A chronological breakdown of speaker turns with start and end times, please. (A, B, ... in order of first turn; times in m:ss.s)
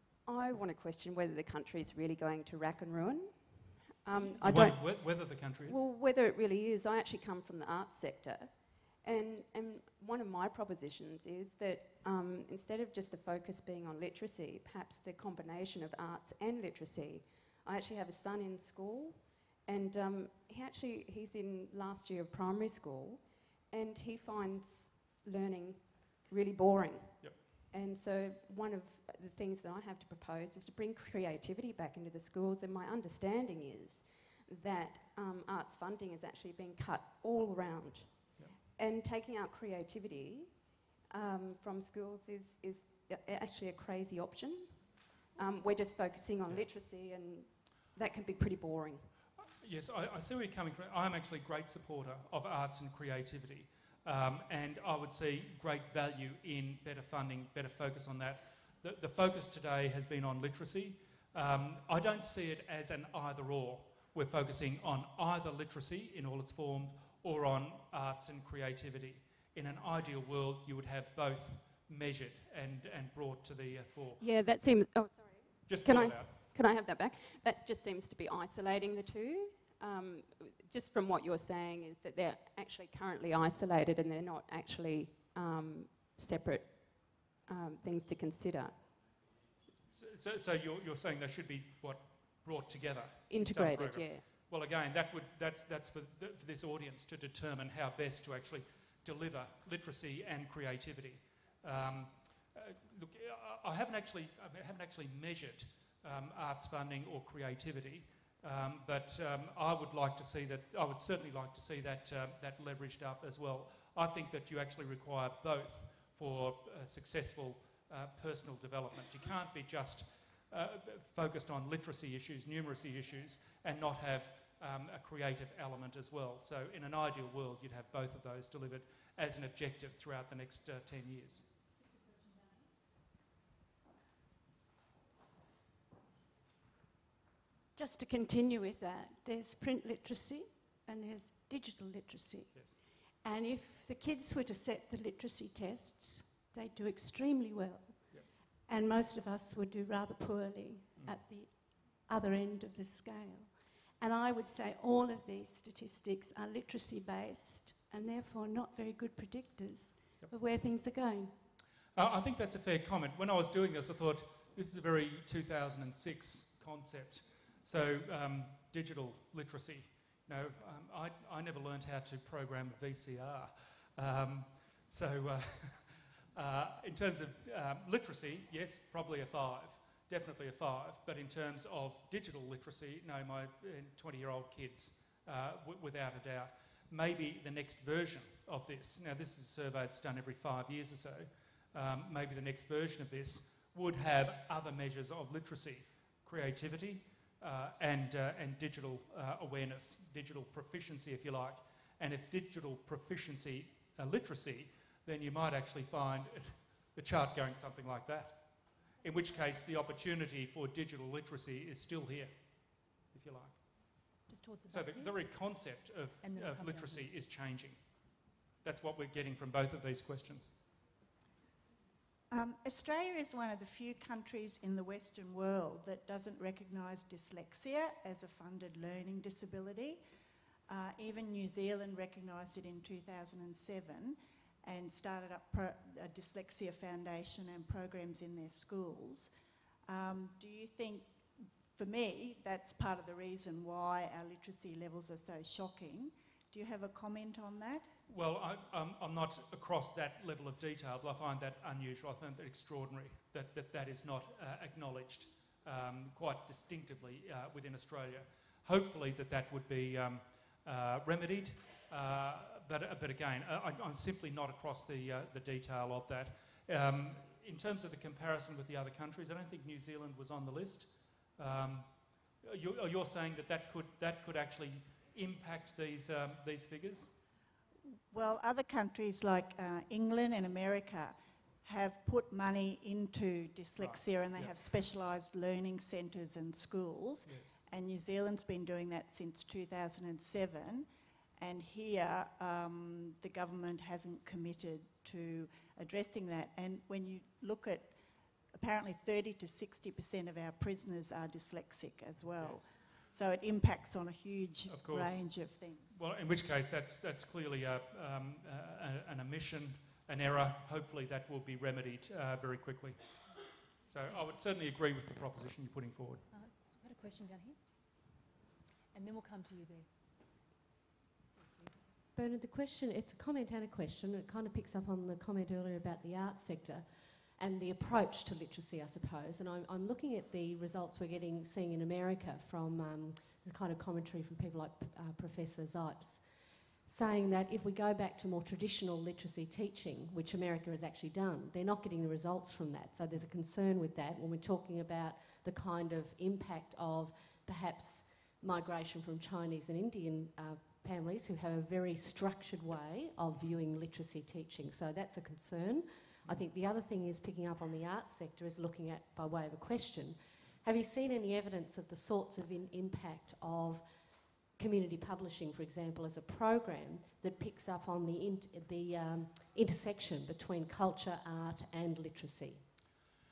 0:00.3-0:49.1 A
0:04.4-0:05.8 B
0:49.6-1:14.2 B
1:14.2-1:28.8 A
1:15.7-1:16.3 B
1:29.9-2:11.4 B
1:33.3-1:34.2 A
2:11.8-2:12.7 C
2:17.8-2:41.4 D
2:42.0-3:32.3 B
3:32.9-3:33.6 B
3:34.3-3:35.2 C
3:34.7-3:37.8 B
3:36.2-3:37.1 C
3:38.6-3:40.5 B
3:42.3-3:50.0 E
3:50.7-3:59.3 E
3:59.9-4:07.9 E
4:08.1-4:31.9 B
4:32.4-4:37.1 B
4:38.1-4:58.0 E
4:43.8-4:44.6 B
4:47.3-4:47.5 B
4:58.5-5:06.0 E
5:02.4-5:02.6 B
5:04.7-5:05.3 B
5:05.9-5:13.0 B
5:13.9-5:16.2 B
5:14.1-5:14.4 C
5:16.3-5:17.6 C
5:18.9-5:19.9 C
5:22.2-5:36.2 F
5:36.9-6:03.8 F
6:04.6-6:12.6 F